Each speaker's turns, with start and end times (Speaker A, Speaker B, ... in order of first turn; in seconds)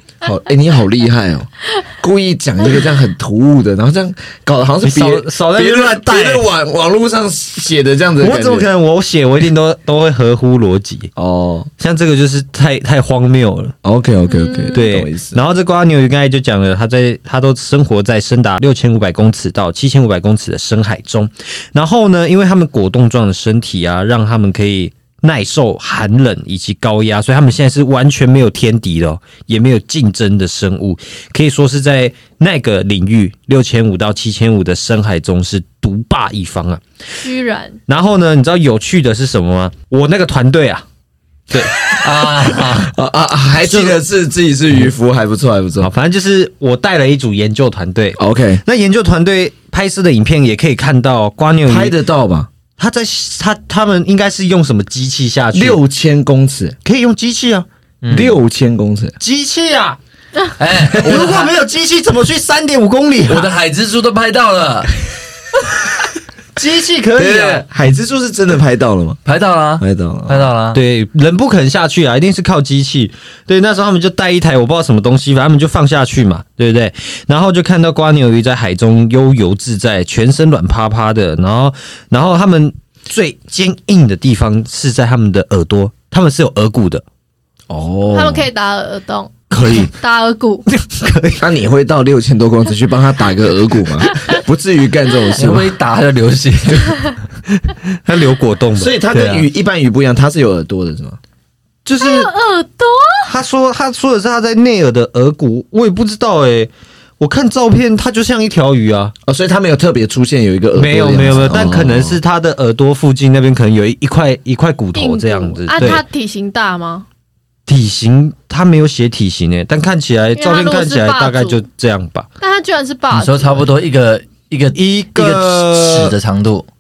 Speaker A: 0.2-8.7, 11.2-11.7, 13.8-15.4, 42.6-45.9, 48.2-48.6, 51.7-52.5, 55.5-56.8, 58.1-59.1, 67.2-69.2, 69.8-70.5, 87.7-88.5, 91.4-95.7, 98.8-101.2, 109.2-112.2
Speaker B: 4.8-6.4, 8.2-11.1, 11.8-13.8, 14.7-36.8, 37.9-40.8, 43.6-44.0, 45.8-51.9, 52.8-55.8, 56.9-57.7, 59.2-60.0, 60.8-63.5, 66.6-67.6, 70.7-87.0, 89.5-89.9, 90.7-91.4, 97.6-99.0, 101.8-102.3, 103.3-109.1, 110.8-116.0, 117.7-122.3, 124.8-126.2
Speaker C: 14.3-14.8, 37.2-37.8, 88.1-90.7, 102.0-103.3, 115.0-117.1, 120.4-121.6, 122.4-123.7
Speaker D: 42.0-42.9, 58.0-58.4, 60.6-61.5, 63.3-64.9, 69.2-70.8, 95.4-97.1, 99.1-99.5, 123.1-126.7